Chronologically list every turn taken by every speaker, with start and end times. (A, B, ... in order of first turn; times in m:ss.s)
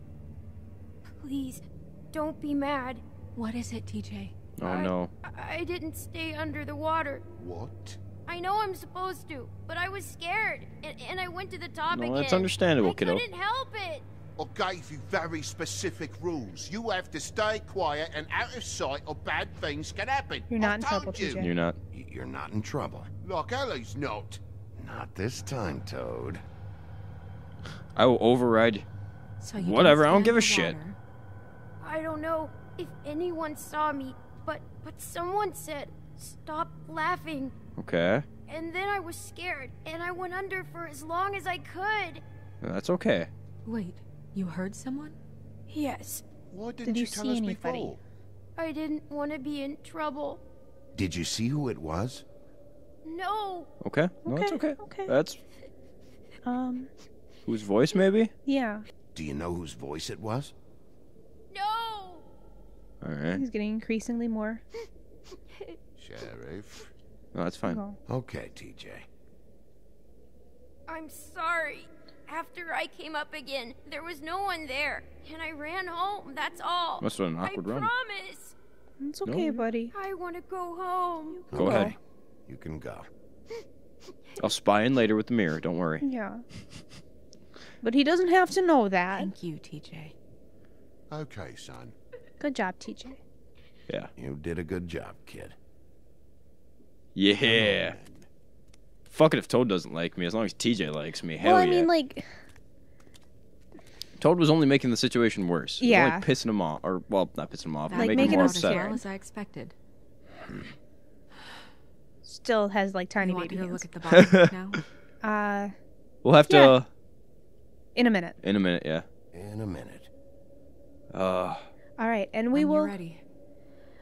0:01.1-0:03.0 A
0:03.4-0:04.3 B
0:04.6-0:05.1 C
0:05.3-0:07.2 A
0:07.4-0:08.0 D
0:08.3-0:12.0 A
0:11.9-0:13.2 C
0:13.0-0:14.0 A
0:14.4-0:21.5 D
0:20.5-0:21.5 E
0:21.4-0:21.8 C
0:21.9-0:23.1 F
0:23.2-0:24.4 D
0:24.8-0:26.4 F
0:28.0-0:28.8 C
0:29.4-0:31.0 B
0:29.6-0:30.8 C
0:31.8-0:37.5 A
0:37.8-0:38.2 C
0:38.5-0:42.2 A
0:42.6-0:43.3 C
0:43.6-0:45.2 B
0:45.7-0:46.2 A
0:46.5-0:48.0 D
0:46.8-0:47.9 E
0:48.6-0:50.4 A
0:50.9-0:52.2 F
0:53.0-0:53.7 A
0:53.8-0:55.4 C
0:54.2-0:55.1 E
0:56.4-0:56.9 E
0:57.5-0:58.3 C
0:58.4-0:58.8 E
0:59.1-1:00.5 F
1:01.5-1:02.2 A
1:03.0-1:03.4 C
1:03.3-1:04.6 E
1:06.0-1:06.9 D
1:07.3-1:07.8 C
1:07.7-1:08.0 E
1:08.1-1:09.1 F
1:10.9-1:17.0 A
1:17.0-1:17.9 C
1:17.6-1:18.5 A
1:19.0-1:19.9 E
1:19.2-1:19.6 C
1:20.0-1:21.4 A
1:21.4-1:21.9 E
1:21.5-1:23.1 F
1:21.5-1:21.9 C
1:24.4-1:26.0 C
1:26.0-1:26.4 E
1:27.8-1:29.3 E
1:29.1-1:30.1 B
1:31.1-1:31.9 D
1:32.4-1:33.2 E
1:34.2-1:35.6 F
1:37.2-1:38.0 C
1:37.6-1:37.9 D
1:37.8-1:38.2 F
1:39.1-1:41.9 C
1:41.4-1:42.2 E
1:44.2-1:48.9 C
1:45.8-1:46.3 E
1:47.9-1:49.7 B
1:47.9-1:49.0 E
1:52.2-1:53.8 E
1:53.2-1:54.8 B
1:54.1-1:54.8 C
1:55.2-1:55.7 E
1:56.2-1:56.9 C
1:56.4-1:56.8 E
1:57.9-1:58.4 E
1:58.4-1:59.0 C
1:59.3-2:00.1 F
2:01.1-2:01.6 C
2:02.0-2:03.0 E
2:02.5-2:03.2 B